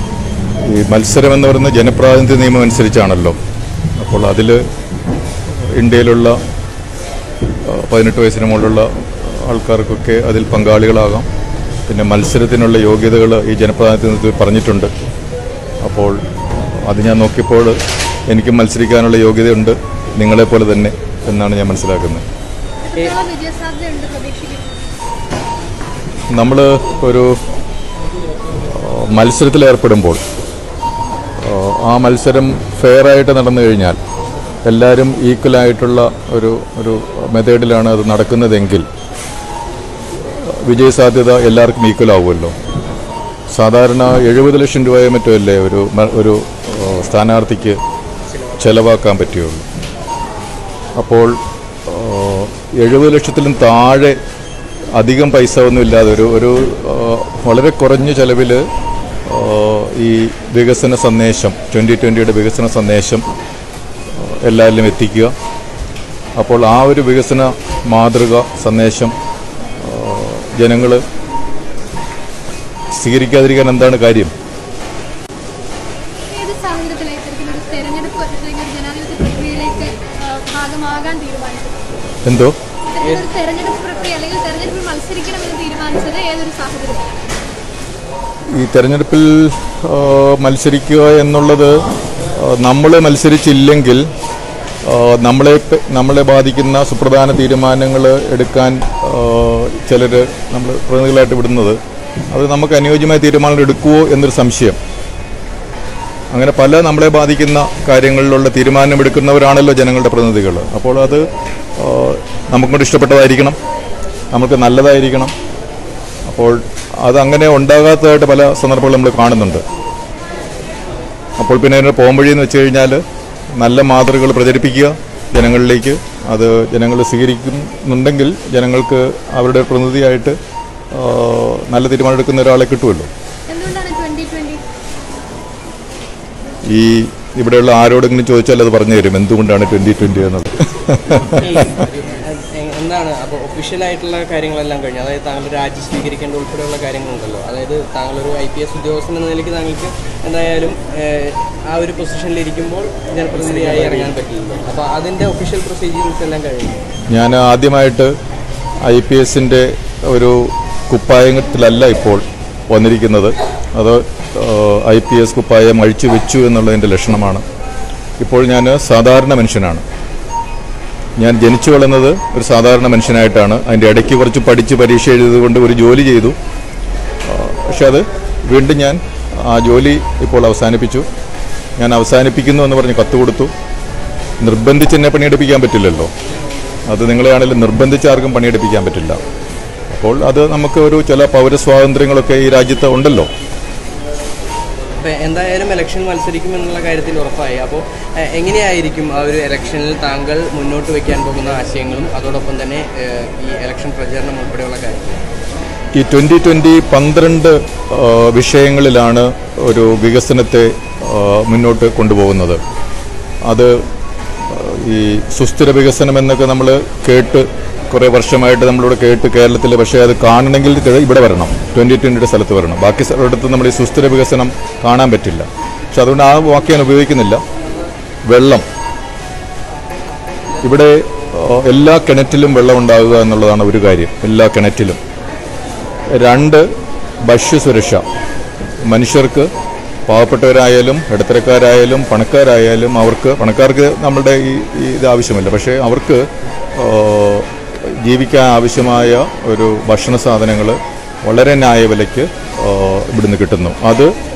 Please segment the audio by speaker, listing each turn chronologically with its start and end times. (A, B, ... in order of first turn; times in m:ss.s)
0:00.6-0:03.4 A
0:04.0-0:04.6 A
0:05.7-0:06.4 A
0:07.6-0:11.3 A
0:11.9-0:14.9 A
0:15.8-0:16.2 A
0:16.7-0:22.2 A
0:22.8-0:24.7 B
0:26.3-0:27.4 A
0:28.6-0:30.2 A
0:31.4-0:34.0 A
0:34.6-0:38.8 A
0:40.3-0:42.5 A
0:43.5-0:47.8 A
0:48.6-0:49.6 A
0:51.0-0:51.3 A
0:51.8-0:54.2 A
0:54.9-0:58.6 A
0:59.2-1:03.2 A
1:04.1-1:05.3 A
1:06.4-1:09.1 A
1:09.8-1:11.0 A
1:12.9-1:14.3 A
1:16.3-1:21.8 B
1:22.2-1:22.5 A
1:22.9-1:27.2 B
1:28.5-1:31.8 A
1:32.3-1:34.1 A
1:34.8-1:41.8 A
1:42.3-1:44.8 A
1:46.3-1:53.6 A
1:54.3-1:55.3 A
1:56.3-1:59.6 A
2:01.4-2:03.0 A
2:03.6-2:10.4 A
2:10.9-2:13.1 A
2:13.5-2:14.6 B
2:16.7-2:21.6 A
2:21.3-2:36.8 C
2:37.1-2:38.1 A
2:38.8-2:47.4 A
2:48.2-2:49.8 A
2:51.2-2:56.4 A
2:57.2-3:01.1 A
3:01.8-3:03.5 A
3:04.4-3:06.1 A
3:06.9-3:09.2 A
3:09.9-3:13.3 A
3:15.0-3:25.2 C
3:25.9-3:32.6 A
3:33.4-3:33.8 A
3:34.5-3:47.4 A
3:48.2-3:48.6 A
3:50.6-3:55.0 A
3:56.1-3:56.7 A
3:57.2-3:58.0 A
3:58.8-3:59.5 A
4:00.1-4:14.1 A